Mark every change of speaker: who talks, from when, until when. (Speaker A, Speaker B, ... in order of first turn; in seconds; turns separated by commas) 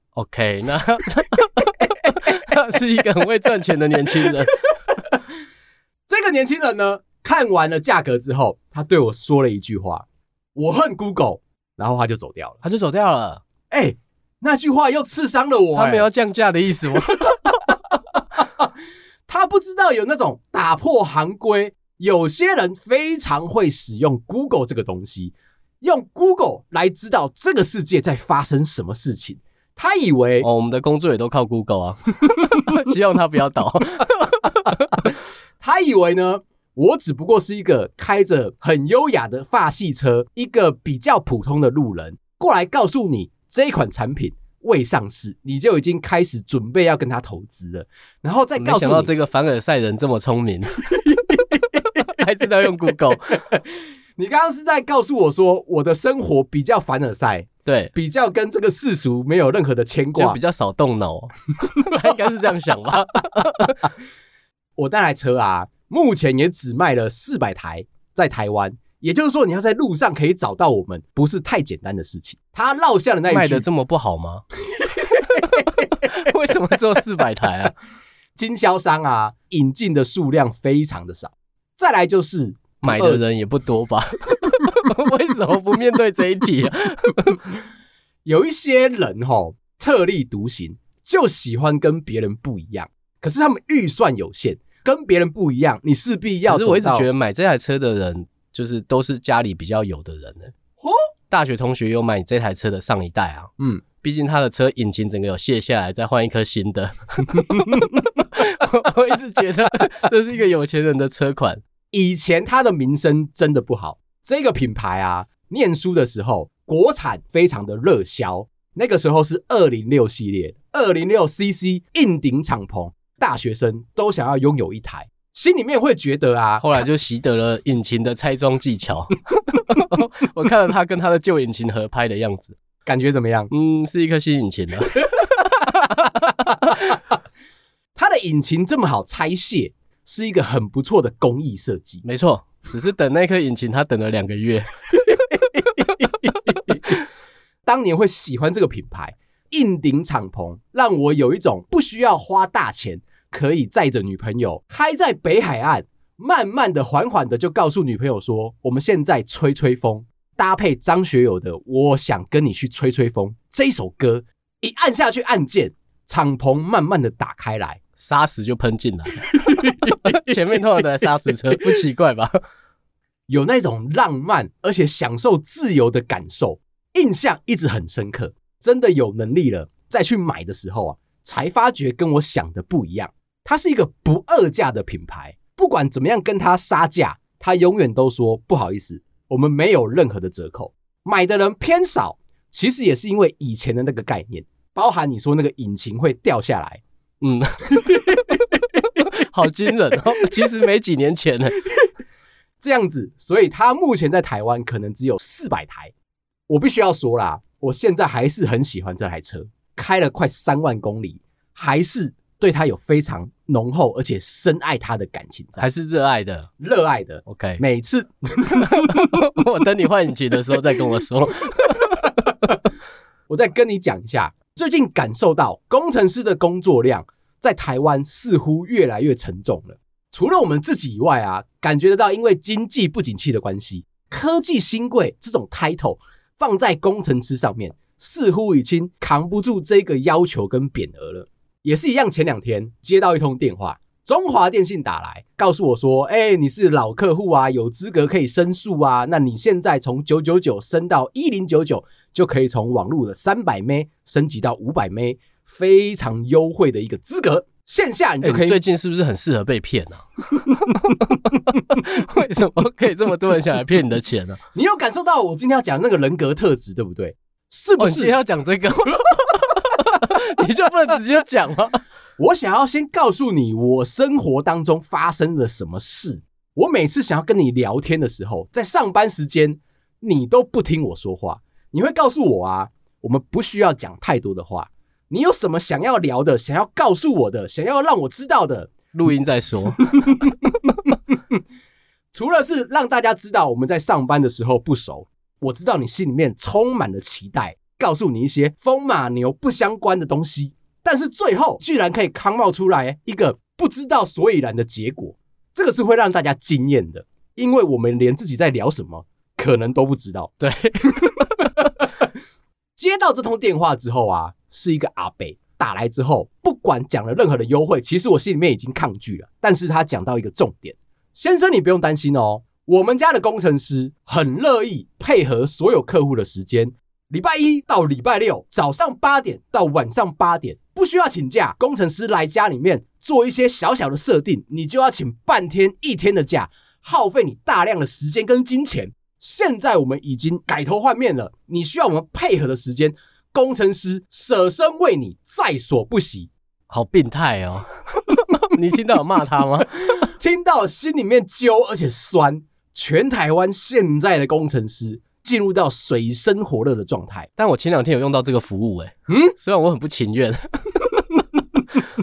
Speaker A: 0.2-4.6, Speaker B: 4.9-5.2, Speaker B: 6.1-12.6, Speaker A: 12.6-13.4, Speaker B: 13.7-16.1, Speaker A: 15.7-17.3, Speaker B: 17.1-18.7, Speaker B: 19.3-30.5, Speaker A: 30.4-35.1, Speaker B: 35.6-49.1, Speaker A: 48.6-51.0, Speaker B: 50.9-51.8, Speaker A: 52.0-53.5, Speaker B: 53.5-60.4, Speaker A: 57.6-57.9, Speaker A: 60.1-63.9, Speaker B: 64.8-73.7, Speaker A: 73.3-74.5, Speaker B: 74.8-75.8, Speaker A: 75.2-77.7, Speaker B: 78.4-83.2, Speaker A: 82.8-87.4, Speaker B: 88.2-97.1, Speaker A: 96.5-100.5, Speaker A: 101.3-111.6, Speaker B: 111.9-126.7, Speaker A: 126.6-132.6, Speaker B: 132.8-133.5, Speaker A: 133.5-136.8, Speaker B: 135.0-135.3, Speaker B: 136.7-136.9, Speaker B: 138.0-142.0, Speaker A: 142.0-144.7, Speaker A: 146.5-146.9, Speaker B: 147.7-167.8, Speaker A: 168.0-172.4, Speaker B: 169.3-170.3, Speaker B: 173.3-196.8, Speaker A: 197.2-198.0, Speaker B: 197.7-198.5, Speaker A: 198.9-201.6, Speaker B: 202.6-205.9, Speaker B: 206.5-215.7, Speaker A: 215.6-216.5, Speaker B: 216.6-219.2, Speaker A: 217.3-217.6, Speaker A: 218.6-222.5, Speaker B: 223.3-258.6, Speaker A: 258.2-264.4, Speaker B: 264.5-268.1, Speaker A: 267.8-271.8, Speaker B: 272.2-288.7, Speaker A: 288.9-290.1, Speaker B: 290.0-290.3, Speaker B: 292.1-310.4, Speaker A: 310.4-311.6, Speaker B: 312.8-346.3, Speaker A: 346.7-350.1, Speaker B: 350.0-357.3, Speaker A: 357.4-361.1, Speaker B: 359.1-359.3